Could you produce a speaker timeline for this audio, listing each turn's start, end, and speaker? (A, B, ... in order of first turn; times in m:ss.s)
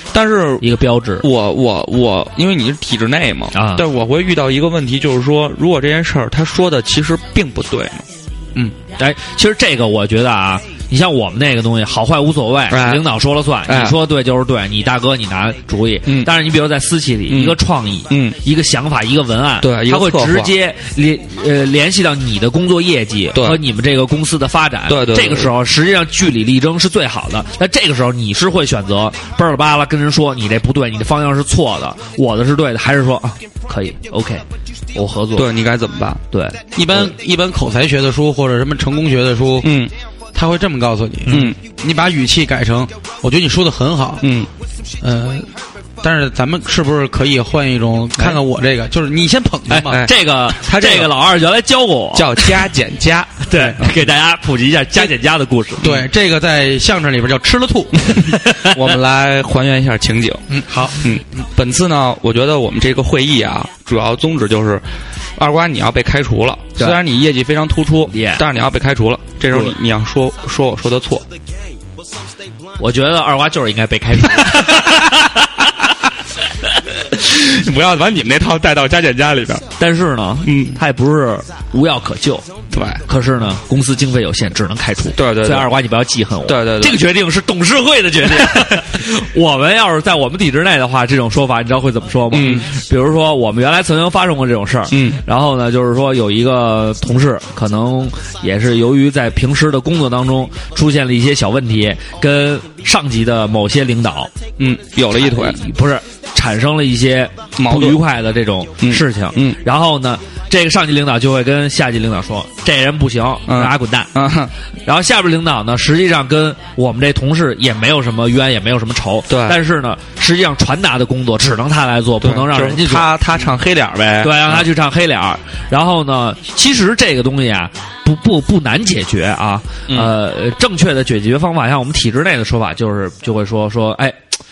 0:00.1-0:00.7 A
0:00.6-0:01.3 B
0:01.2-0:08.0 A
0:03.5-0:03.8 B
0:09.0-0:35.5 B
0:12.7-0:13.1 A
0:13.7-0:14.0 A
0:16.1-0:16.3 A
0:17.3-0:18.4 A
0:19.6-0:20.5 A
0:23.4-0:23.6 A
0:24.9-0:25.5 A
0:35.4-0:36.2 A
0:36.3-0:37.1 B
0:36.8-0:39.8 C
0:39.6-0:39.9 A
0:40.4-0:44.3 C
0:41.2-0:41.6 B
0:41.3-0:41.6 A
0:44.2-0:44.5 A
0:45.0-0:50.0 C
0:49.7-0:52.6 B
0:49.9-0:51.1 A
0:52.2-0:53.9 A
0:53.5-0:55.9 B
0:55.8-0:58.2 C
0:58.2-1:04.8 A
0:58.2-0:58.8 B
1:00.5-1:01.1 C
1:05.4-1:11.2 A
1:08.1-1:08.4 B
1:12.8-1:15.4 B
1:14.6-1:15.0 A
1:17.1-1:19.6 A
1:19.8-1:22.5 B
1:20.4-1:20.8 A
1:22.7-1:23.0 A
1:23.0-1:44.3 B
1:25.2-1:25.7 A
1:26.5-1:27.0 A
1:32.3-1:32.7 A
1:34.9-1:35.2 A
1:44.6-1:45.6 A
1:45.1-1:54.1 B
1:47.6-1:48.0 A
1:48.8-1:49.6 A
1:53.5-1:54.5 A
1:54.9-2:03.1 B
1:59.3-1:59.6 A
2:02.2-2:04.7 A
2:04.2-2:14.2 B